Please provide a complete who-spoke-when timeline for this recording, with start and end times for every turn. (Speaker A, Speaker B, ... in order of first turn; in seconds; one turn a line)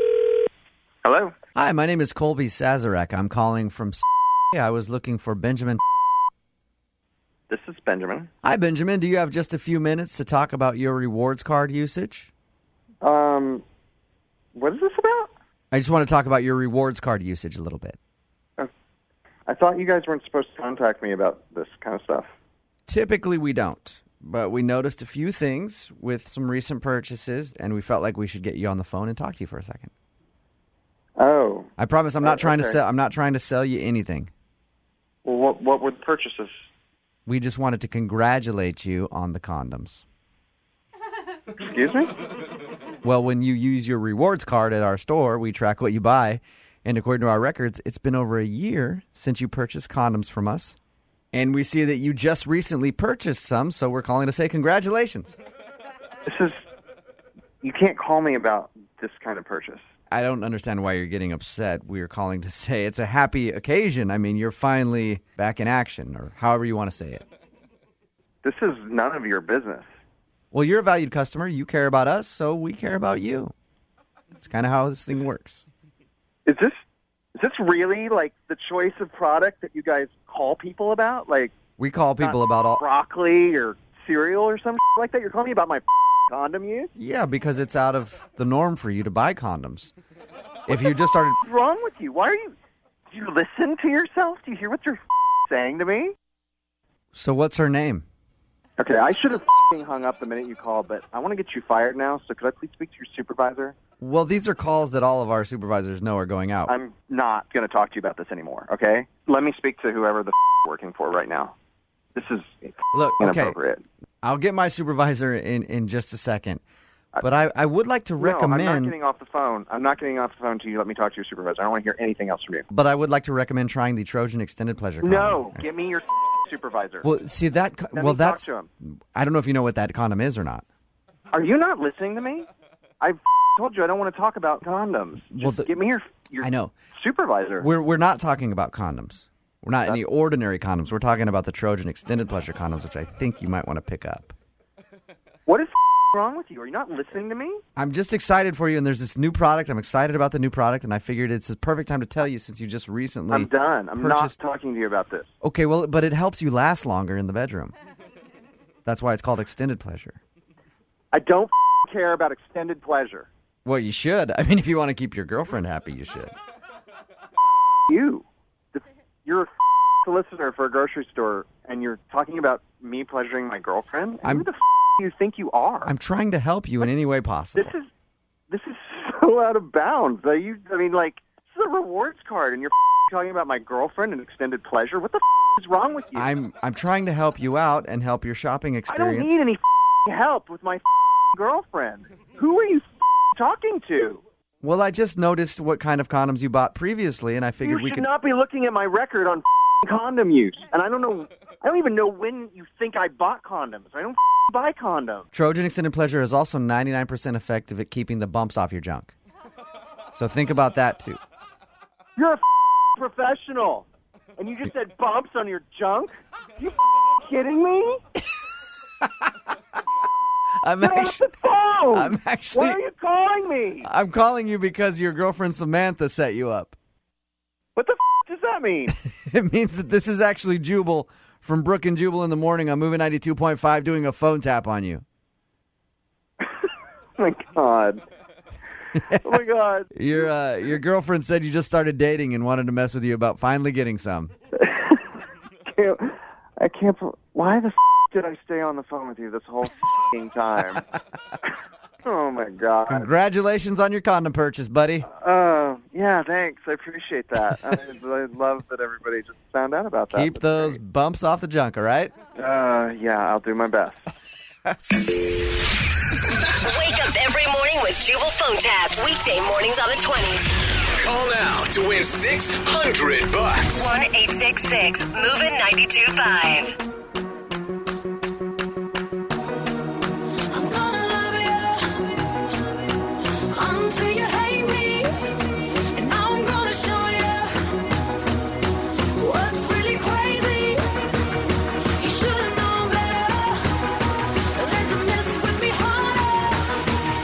Speaker A: 1.0-1.3
Speaker B: 1.5-5.8
Speaker A: 7.5-8.3
Speaker B: 8.4-12.3
Speaker A: 13.0-13.6
Speaker A: 14.6-15.3
Speaker B: 15.7-18.0
Speaker A: 19.5-22.3
Speaker B: 22.9-29.9
Speaker A: 31.2-31.7
Speaker B: 31.8-34.3
Speaker A: 32.2-32.8
Speaker A: 35.2-36.5
Speaker B: 37.2-40.0
Speaker A: 41.6-42.1
Speaker B: 43.0-50.8
Speaker B: 51.3-55.4
Speaker A: 56.2-56.6
Speaker A: 57.6-59.8
Speaker B: 60.1-67.2
Speaker A: 68.4-69.8
Speaker B: 70.5-73.5
Speaker B: 74.4-75.6
Speaker A: 76.5-76.8
Speaker A: 77.4-81.5
Speaker B: 81.8-82.8
Speaker A: 82.2-86.9
Speaker B: 87.0-89.9
Speaker B: 90.7-91.4
Speaker A: 90.7-92.5
Speaker A: 93.1-96.1
Speaker B: 97.1-98.0
Speaker A: 98.8-103.8
Speaker B: 104.0-106.7
Speaker A: 106.7-111.5
Speaker A: 112.1-113.8
Speaker B: 112.9-113.6
Speaker B: 114.2-116.6
Speaker B: 117.2-118.9
Speaker A: 118.2-122.7
Speaker B: 122.7-125.5
Speaker A: 125.0-127.1
Speaker B: 127.0-130.6
Speaker A: 127.9-128.7
Speaker A: 131.3-132.5
Speaker A: 133.0-137.7
Speaker B: 135.3-135.7
Speaker B: 136.4-136.7
Speaker B: 137.6-144.3
Speaker A: 145.4-147.6
Speaker B: 147.8-154.3
Speaker A: 153.3-155.3
Speaker B: 155.4-157.7
Speaker B: 158.8-160.2
Speaker A: 161.1-163.3
Speaker B: 163.6-166.3
Speaker A: 167.9-168.2
Speaker A: 170.0-175.9
Speaker B: 175.8-177.7
Speaker A: 177.5-177.9
Speaker A: 178.5-186.3
Speaker B: 186.1-189.3
Speaker A: 188.9-194.2
Speaker B: 194.6-198.1
Speaker A: 197.6-205.2
Speaker B: 205.3-209.1
Speaker B: 210.1-211.2
Speaker A: 212.2-212.4
Speaker A: 212.9-213.8
Speaker A: 214.4-218.0
Speaker B: 220.6-221.2
Speaker A: 220.8-223.9
Speaker B: 221.9-222.8
Speaker B: 223.8-226.8
Speaker A: 227.7-228.9
Speaker B: 229.2-235.0
Speaker A: 237.2-238.0
Speaker B: 238.9-239.4
Speaker A: 239.2-240.3
Speaker B: 239.9-244.3
Speaker A: 244.6-245.0
Speaker A: 245.7-250.8
Speaker A: 252.0-253.1
Speaker B: 252.9-255.1
Speaker A: 255.1-260.8
Speaker B: 260.1-262.1
Speaker A: 262.4-264.0
Speaker A: 266.5-267.2
Speaker C: 267.2-270.4
Speaker D: 271.0-273.9
Speaker A: 273.7-274.1
Speaker C: 274.1-276.8
Speaker E: 280.5-282.2
Speaker E: 283.5-287.5
Speaker E: 289.1-290.9
Speaker E: 292.0-296.8